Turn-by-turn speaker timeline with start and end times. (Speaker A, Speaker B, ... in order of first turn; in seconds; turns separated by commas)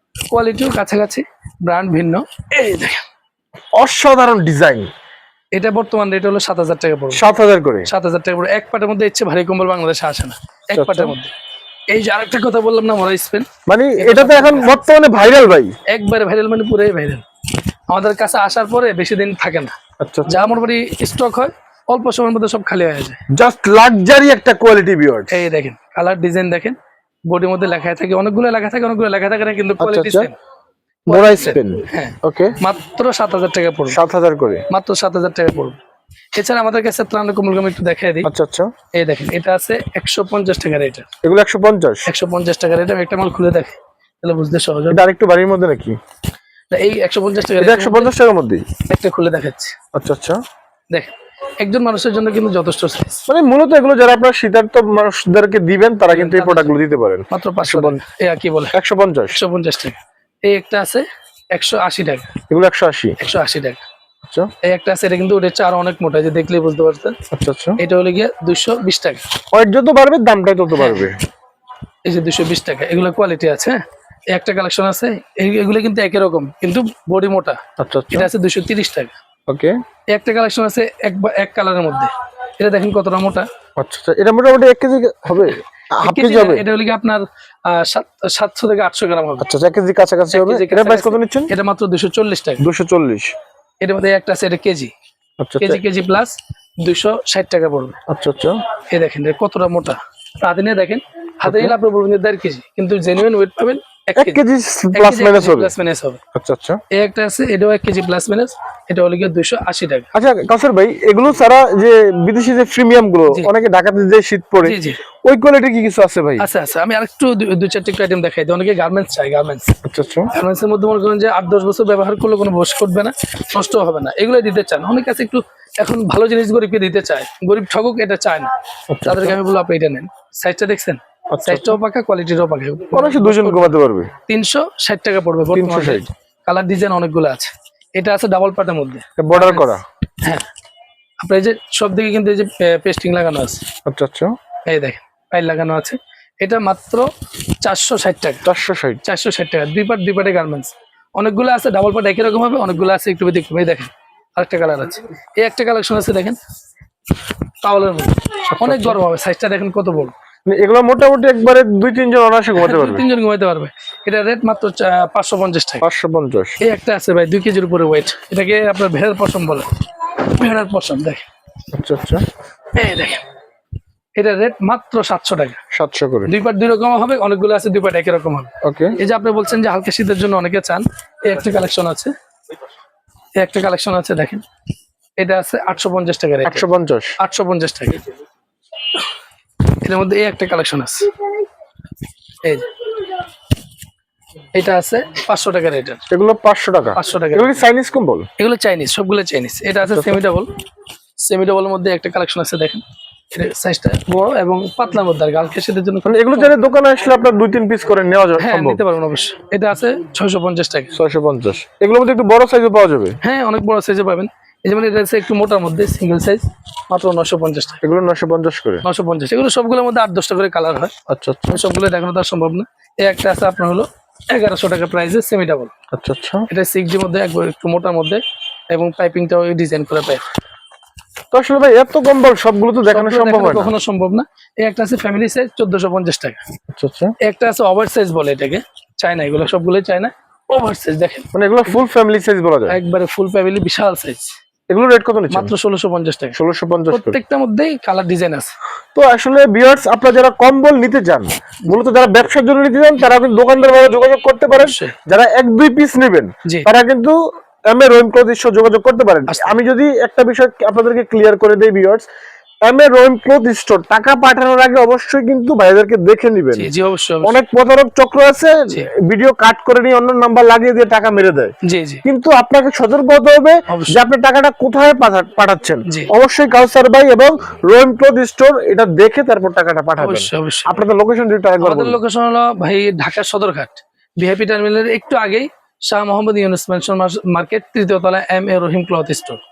Speaker A: 0.3-3.0, Speaker B: 3.8-4.9, Speaker A: 5.5-7.2, Speaker B: 7.1-7.9, Speaker A: 7.8-11.3, Speaker B: 10.7-11.2, Speaker A: 11.9-13.5, Speaker B: 13.7-15.7, Speaker A: 14.0-14.7, Speaker A: 15.9-17.2, Speaker A: 17.9-19.7, Speaker B: 20.0-20.4, Speaker A: 20.2-23.2, Speaker B: 23.3-25.4, Speaker A: 25.3-26.8, Speaker A: 27.3-30.3, Speaker B: 29.8-30.3, Speaker B: 31.1-32.5, Speaker A: 31.1-34.0, Speaker B: 33.9-34.6, Speaker A: 34.7-35.8, Speaker A: 36.4-38.3, Speaker B: 38.2-38.7, Speaker A: 39.0-41.1, Speaker B: 41.2-42.1, Speaker A: 42.0-45.0, Speaker B: 44.9-46.0, Speaker A: 46.7-48.1, Speaker B: 47.5-48.6, Speaker A: 48.8-49.7, Speaker B: 49.9-50.4, Speaker A: 50.9-53.2, Speaker B: 53.3-58.0, Speaker A: 56.1-56.8, Speaker A: 57.3-58.7, Speaker B: 58.7-59.4, Speaker A: 59.3-62.3, Speaker B: 62.5-63.1, Speaker A: 63.2-63.8, Speaker A: 64.6-67.2, Speaker B: 67.3-67.8, Speaker A: 67.8-69.2, Speaker B: 69.5-71.2, Speaker A: 70.7-71.1, Speaker A: 72.0-77.6, Speaker B: 77.8-78.3, Speaker A: 78.1-79.1, Speaker B: 79.5-79.7, Speaker A: 80.1-83.5, Speaker B: 83.8-86.6, Speaker A: 85.5-89.5, Speaker B: 89.4-91.5, Speaker A: 90.3-92.6, Speaker B: 92.6-93.3, Speaker A: 93.8-94.9, Speaker B: 95.4-95.8, Speaker A: 95.6-98.0, Speaker B: 98.1-98.6, Speaker A: 98.9-104.4, Speaker B: 101.4-101.8, Speaker B: 104.2-105.7, Speaker A: 104.9-106.2, Speaker B: 106.3-106.8, Speaker A: 106.9-110.1, Speaker B: 110.1-116.5, Speaker A: 114.6-115.0, Speaker A: 116.4-119.7, Speaker B: 119.8-120.3, Speaker A: 120.3-128.5, Speaker B: 128.9-129.4, Speaker A: 129.1-140.4, Speaker B: 131.3-131.8, Speaker B: 132.9-134.1, Speaker B: 135.5-136.1, Speaker B: 139.2-139.8, Speaker A: 141.2-143.6, Speaker B: 143.9-144.3, Speaker A: 144.7-147.0, Speaker A: 147.6-148.4, Speaker B: 148.4-149.0, Speaker A: 149.0-156.4, Speaker A: 157.6-160.1, Speaker B: 158.5-159.0, Speaker B: 160.5-163.0, Speaker A: 162.6-165.8, Speaker B: 165.8-166.6, Speaker A: 166.6-171.2, Speaker B: 171.7-172.2, Speaker A: 172.7-173.2, Speaker A: 174.2-175.6, Speaker B: 175.7-176.3, Speaker A: 176.3-182.1, Speaker B: 178.6-178.9, Speaker A: 183.4-184.4, Speaker A: 185.2-186.6, Speaker B: 186.4-187.1, Speaker A: 187.2-188.0, Speaker A: 189.8-191.1, Speaker A: 194.5-196.0, Speaker B: 196.1-198.3, Speaker A: 196.9-197.6, Speaker A: 198.4-200.5, Speaker B: 199.8-200.2, Speaker A: 201.2-206.5, Speaker B: 206.0-208.8, Speaker A: 208.4-211.0, Speaker B: 210.9-213.2, Speaker A: 213.2-217.8, Speaker B: 217.8-218.8, Speaker A: 218.8-220.9, Speaker B: 221.1-221.7, Speaker A: 221.5-225.7, Speaker B: 225.9-226.4, Speaker A: 226.5-230.2, Speaker B: 231.3-233.7, Speaker A: 232.8-236.4, Speaker B: 236.7-237.1, Speaker A: 237.2-241.3, Speaker B: 241.3-242.8, Speaker A: 242.7-244.3, Speaker B: 244.7-245.5, Speaker A: 245.3-246.4, Speaker B: 246.3-247.2, Speaker A: 246.9-248.5, Speaker B: 248.9-257.2, Speaker A: 254.5-254.9, Speaker B: 257.7-262.1, Speaker A: 259.3-259.6, Speaker B: 262.6-266.7, Speaker A: 266.6-267.4, Speaker B: 267.2-271.5, Speaker A: 271.6-272.0, Speaker B: 272.0-282.0, Speaker A: 273.7-274.0, Speaker A: 280.0-280.8, Speaker A: 281.6-289.4